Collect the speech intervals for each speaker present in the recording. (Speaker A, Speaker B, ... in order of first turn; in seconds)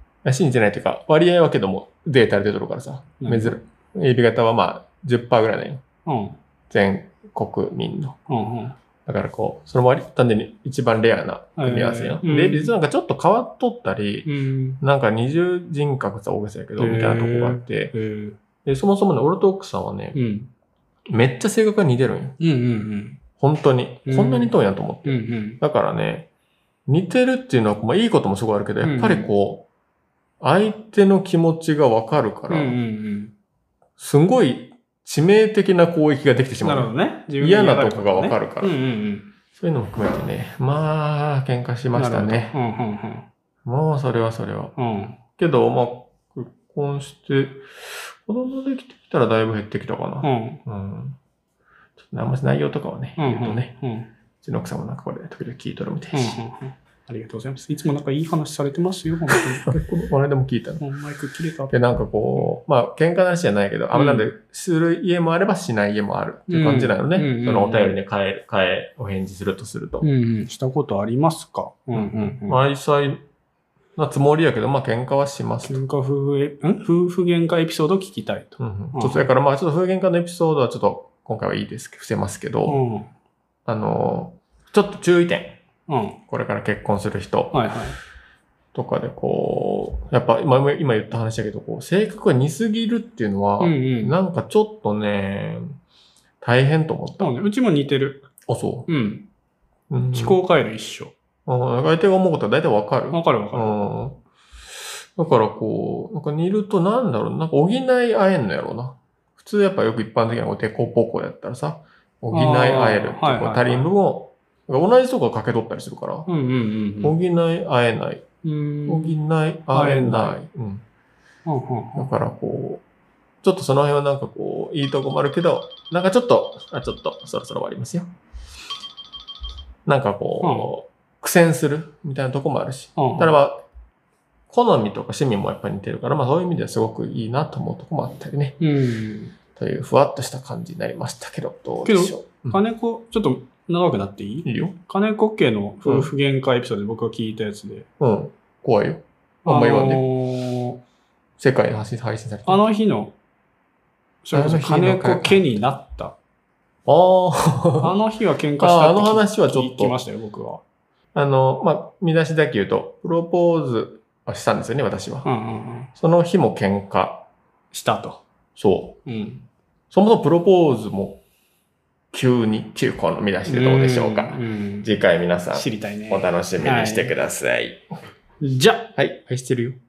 Speaker A: 0.2-5.8, 6.7-8.2, 9.0-14.3, 14.8-17.9, 18.6-20.2, 21.1-22.4, 23.4-26.3, 26.9-29.7, 30.4-32.8, 34.0-38.8, 39.5-42.6, 43.6-44.8, 45.4-51.2, 52.0-53.8, 54.4-56.4, 59.3-60.8, 61.7-70.1, 71.9-73.2, 74.0-75.8, 78.6-82.8, 83.7-85.6, 86.3-87.7, 88.7-95.8, 96.4-97.3, 98.5-98.9, 99.9-100.4, 101.5-104.2, 105.0-116.3, 117.0-118.2, 118.9-120.8, 122.0-122.8, 123.4-128.1, 129.8-133.7, 134.5-138.6, 139.6-142.6, 144.4-144.8, 145.8-146.1, 148.0-150.1, 151.4-152.7, 154.3-155.6, 156.8-158.0, 158.6-160.0, 161.1-165.3, 166.0-167.3, 168.6-169.0, 169.9-171.2, 172.1-177.8, 179.0-179.8
Speaker B: 3.2-3.6, 6.0-6.4, 8.3-8.8, 11.6-12.8, 14.2-14.8, 16.8-18.4, 20.1-20.5, 22.4-23.2, 24.1-24.5, 25.0-25.6, 28.8-29.3, 32.5-33.3, 36.6-39.3, 41.9-43.3, 44.8-45.2, 50.2-50.6, 53.2-54.1, 56.1-59.8, 60.8-62.5, 63.9-64.3, 66.5-68.0, 70.0-72.6, 75.7-79.3, 82.7-83.1, 85.9-86.2, 87.5-88.0, 93.6-94.2, 97.2-98.3, 98.9-99.3, 100.1-101.2, 103.1-103.7, 112.3-113.9, 116.3-117.2, 118.4-119.2, 119.7-120.4, 121.5-122.1, 130.4-130.7, 133.0-133.3, 138.6-139.3, 141.8-147.9, 149.5-150.8, 152.5-153.2, 154.2-156.2, 157.8-160.6, 165.2-165.9, 167.7-168.2, 169.1-169.5, 173.5-174.9, 175.5-177.2, 178.4-178.9